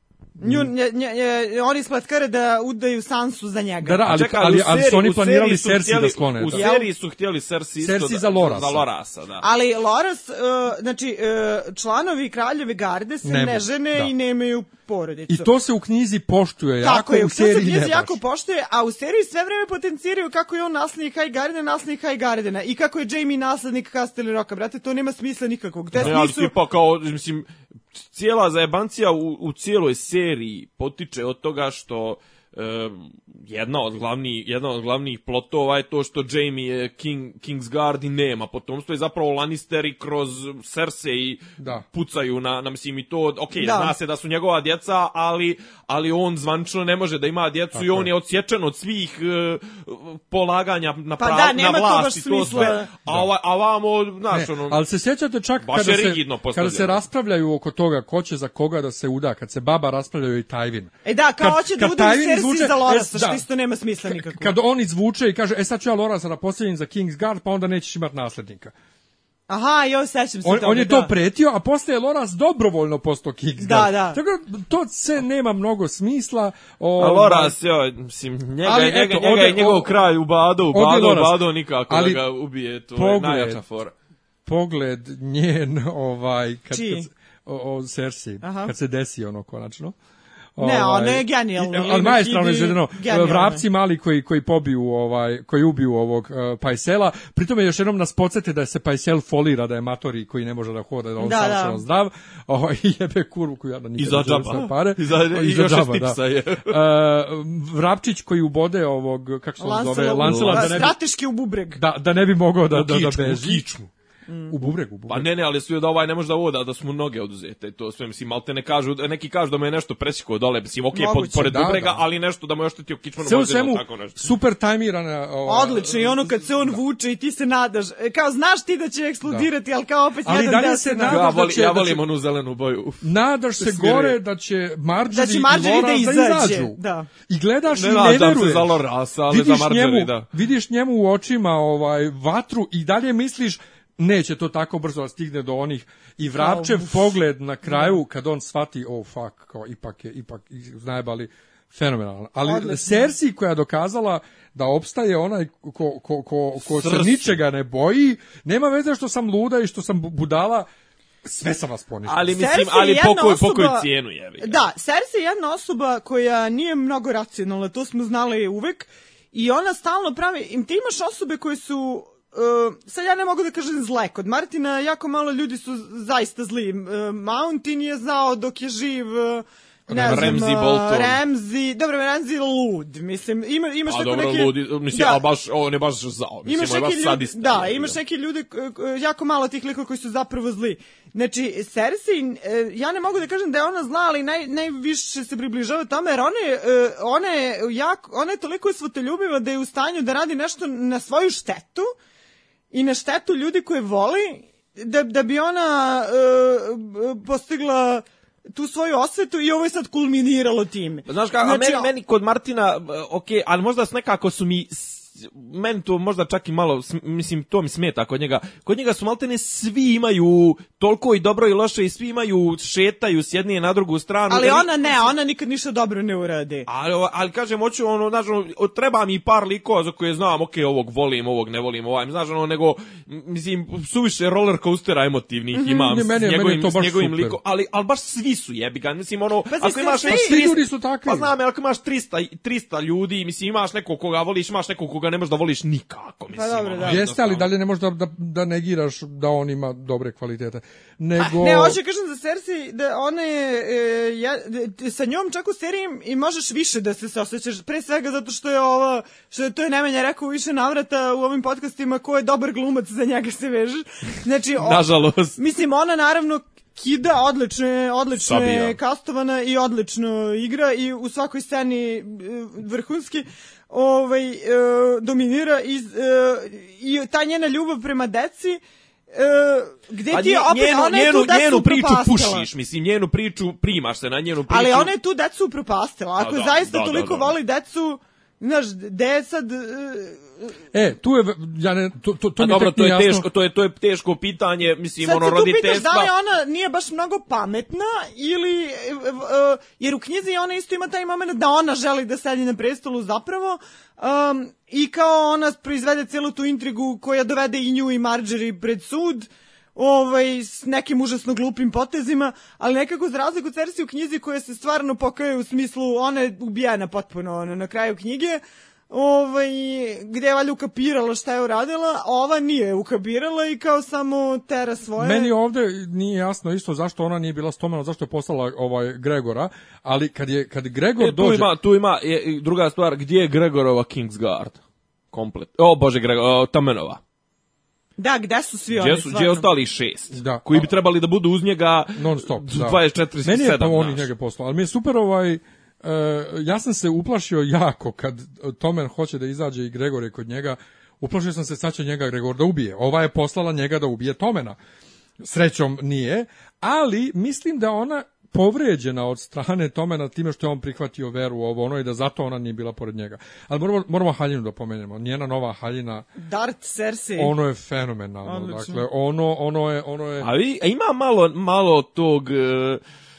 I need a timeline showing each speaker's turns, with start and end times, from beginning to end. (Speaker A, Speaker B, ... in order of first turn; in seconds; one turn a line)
Speaker A: 0.4-0.7
Speaker B: 0.4-4.1
Speaker A: 3.8-6.7
Speaker C: 4.1-9.4
Speaker B: 6.5-6.9
Speaker A: 7.8-8.8
Speaker B: 9.4-15.5
Speaker A: 13.2-14.1
Speaker A: 15.3-18.2
Speaker B: 16.8-26.5
Speaker C: 26.0-54.8
Speaker A: 41.6-41.8
Speaker B: 43.6-43.9
Speaker A: 47.7-48.1
Speaker B: 51.2-52.9
Speaker A: 54.3-63.4
Speaker C: 55.6-57.0
Speaker B: 61.0-64.5
Speaker A: 64.1-68.7
Speaker B: 69.5-71.1
Speaker A: 70.4-77.5
Speaker B: 73.6-74.2
Speaker C: 77.0-83.9
Speaker A: 78.6-79.9
Speaker A: 80.7-82.2
Speaker A: 82.9-83.6
Speaker A: 84.4-90.0
Speaker B: 86.7-87.1
Speaker B: 88.4-88.7
Speaker A: 90.6-110.9
Speaker B: 90.6-93.6
Speaker B: 101.2-101.8
Speaker C: 104.0-106.8
Speaker B: 109.6-111.8
Speaker C: 110.2-110.9
Speaker A: 111.8-113.7
Speaker C: 112.7-113.9
Speaker B: 114.3-114.5
Speaker A: 114.5-115.3
Speaker C: 115.1-124.2
Speaker B: 120.9-121.5
Speaker A: 121.4-122.0
Speaker A: 123.2-126.8
Speaker B: 125.5-131.2
Speaker A: 130.2-132.0
Speaker C: 131.1-133.0
Speaker A: 133.0-138.8
Speaker C: 133.6-134.2
Speaker B: 135.1-137.1
Speaker C: 137.7-140.3
Speaker A: 139.3-160.7
Speaker B: 146.4-148.0
Speaker B: 152.4-153.1
Speaker C: 156.6-157.4
Speaker A: 161.2-162.4
Speaker C: 162.1-164.6
Speaker B: 162.3-163.9
Speaker B: 164.4-185.2
Speaker A: 179.9-180.4
Speaker C: 180.0-181.2
Speaker C: 183.8-188.0
Speaker B: 186.4-201.9
Speaker B: 202.7-211.9
Speaker C: 211.1-224.9
Speaker B: 224.3-226.7
Speaker C: 226.7-247.5
Speaker B: 235.5-235.9
Speaker A: 235.9-237.4
Speaker B: 239.5-240.4
Speaker A: 240.1-241.3
Speaker B: 246.3-247.0
Speaker A: 246.8-251.8
Speaker B: 251.2-278.6
Speaker C: 264.6-265.4
Speaker C: 268.2-268.8
Speaker B: 279.1-282.5
Speaker C: 280.1-284.9
Speaker B: 284.5-290.5
Speaker C: 286.2-287.3
Speaker A: 290.7-293.2
Speaker C: 292.4-296.1
Speaker B: 295.0-325.3
Speaker A: 325.0-331.5
Speaker C: 331.0-334.6
Speaker C: 335.1-337.0
Speaker B: 338.0-339.5
Speaker C: 338.7-344.1
Speaker A: 340.1-340.6
Speaker A: 341.9-354.6
Speaker A: 355.2-366.1
Speaker B: 366.2-367.3
Speaker A: 367.2-370.3
Speaker B: 368.2-368.8
Speaker C: 370.2-372.8